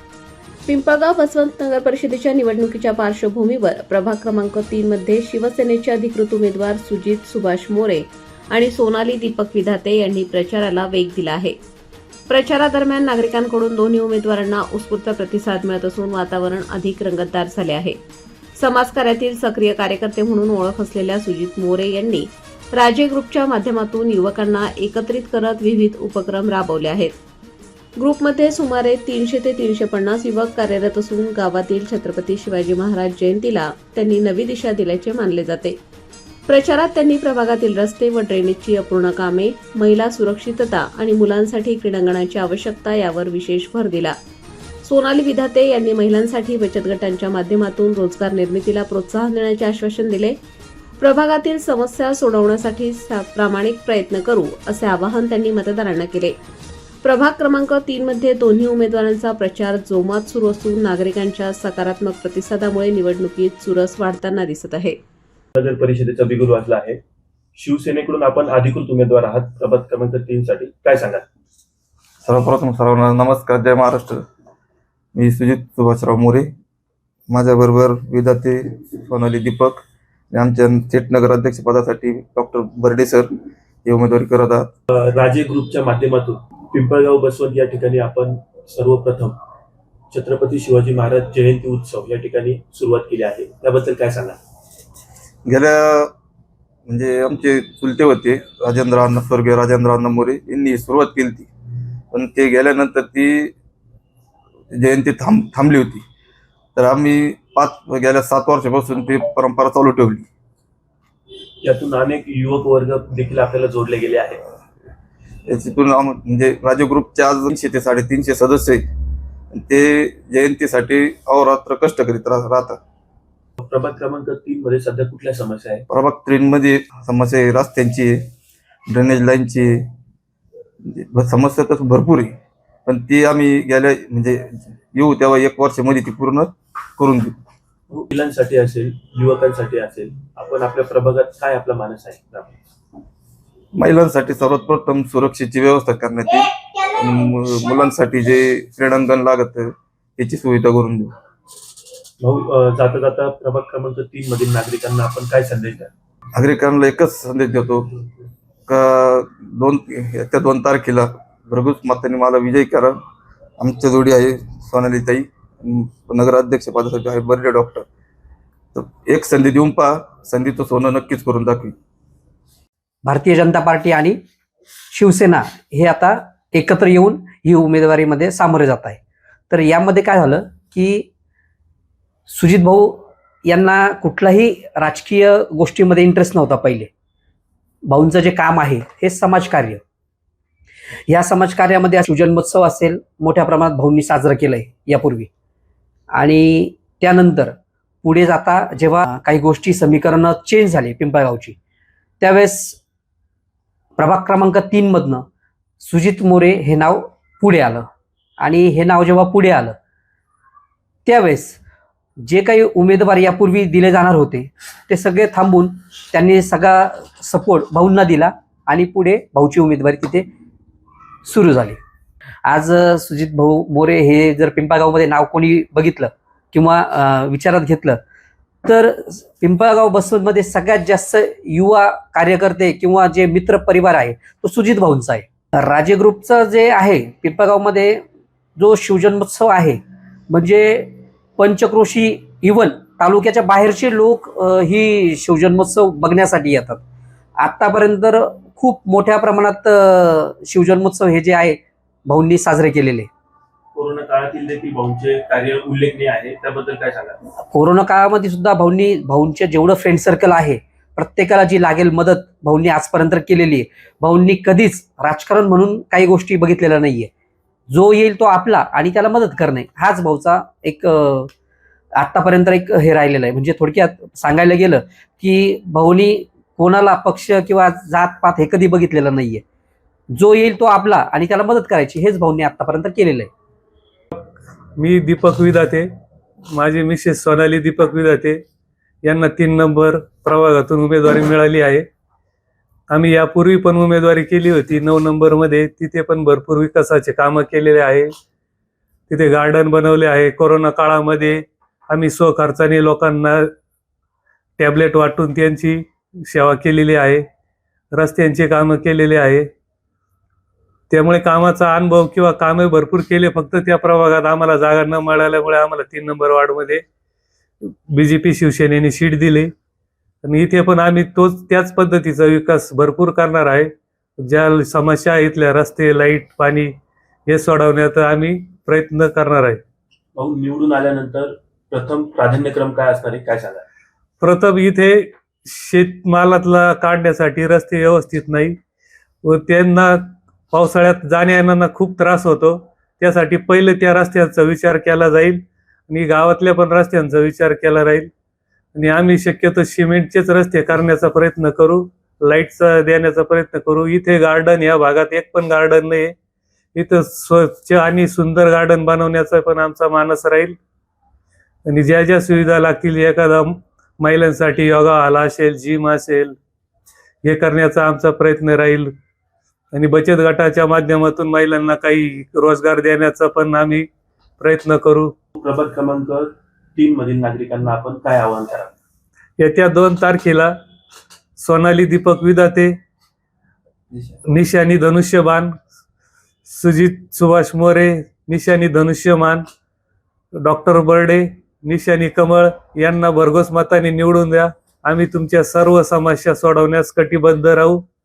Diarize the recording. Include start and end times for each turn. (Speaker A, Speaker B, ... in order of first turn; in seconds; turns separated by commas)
Speaker A: 0.7-11.6, Speaker A: 12.3-18.0, Speaker A: 18.6-27.1, Speaker A: 28.0-35.8, Speaker A: 36.5-44.1, Speaker A: 44.8-50.3, Speaker A: 51.0-56.3, Speaker A: 57.0-65.0, Speaker B: 65.5-67.0, Speaker B: 67.6-71.2, Speaker C: 72.2-74.2, Speaker C: 75.1-76.5, Speaker C: 77.3-83.3, Speaker C: 83.8-84.7, Speaker B: 84.9-89.4, Speaker B: 90.1-94.4, Speaker C: 95.5-96.1, Speaker C: 96.9-101.5, Speaker C: 102.1-103.5, Speaker C: 104.7-106.0, Speaker C: 106.7-110.3, Speaker B: 111.6-114.4, Speaker C: 115.5-118.8, Speaker C: 119.5-122.8, Speaker B: 123.6-125.8, Speaker C: 125.9-128.3, Speaker C: 128.9-129.9, Speaker C: 130.8-137.4, Speaker B: 137.9-142.6, Speaker C: 143.7-151.1, Speaker B: 152.2-155.9, Speaker C: 156.3-157.9, Speaker C: 158.7-163.0, Speaker C: 163.6-167.9, Speaker C: 168.7-171.8, Speaker D: 173.0-174.2, Speaker D: 174.9-179.0, Speaker D: 179.5-181.1, Speaker D: 182.3-186.9, Speaker D: 187.9-189.8, Speaker D: 191.1-195.3, Speaker D: 196.1-201.6, Speaker D: 202.2-202.8, Speaker D: 204.0-205.2, Speaker D: 205.8-207.8, Speaker D: 208.4-209.7, Speaker D: 211.1-211.6, Speaker D: 212.2-220.2, Speaker D: 221.2-221.8, Speaker D: 222.4-228.0, Speaker D: 228.6-238.0, Speaker D: 238.6-246.8, Speaker D: 247.4-253.1, Speaker B: 253.7-257.1, Speaker D: 257.5-267.1, Speaker D: 267.7-271.3, Speaker D: 272.0-279.4, Speaker D: 280.1-283.3, Speaker E: 284.8-285.9, Speaker E: 286.5-288.4, Speaker E: 289.0-291.8, Speaker E: 292.9-298.1, Speaker E: 299.1-303.5, Speaker E: 304.6-307.2, Speaker E: 307.9-309.5, Speaker E: 310.9-316.8, Speaker E: 317.6-319.5, Speaker E: 320.2-326.7, Speaker E: 327.3-329.6, Speaker B: 330.1-333.6, Speaker E: 334.2-338.6, Speaker E: 339.2-348.1, Speaker E: 348.7-356.1, Speaker E: 356.7-360.6, Speaker E: 361.7-366.3, Speaker E: 367.2-368.9, Speaker E: 369.7-373.9, Speaker E: 374.4-375.1, Speaker B: 375.4-378.7, Speaker E: 379.4-380.5, Speaker E: 381.4-382.7, Speaker E: 384.3-385.5, Speaker E: 386.5-389.4, Speaker E: 390.4-397.8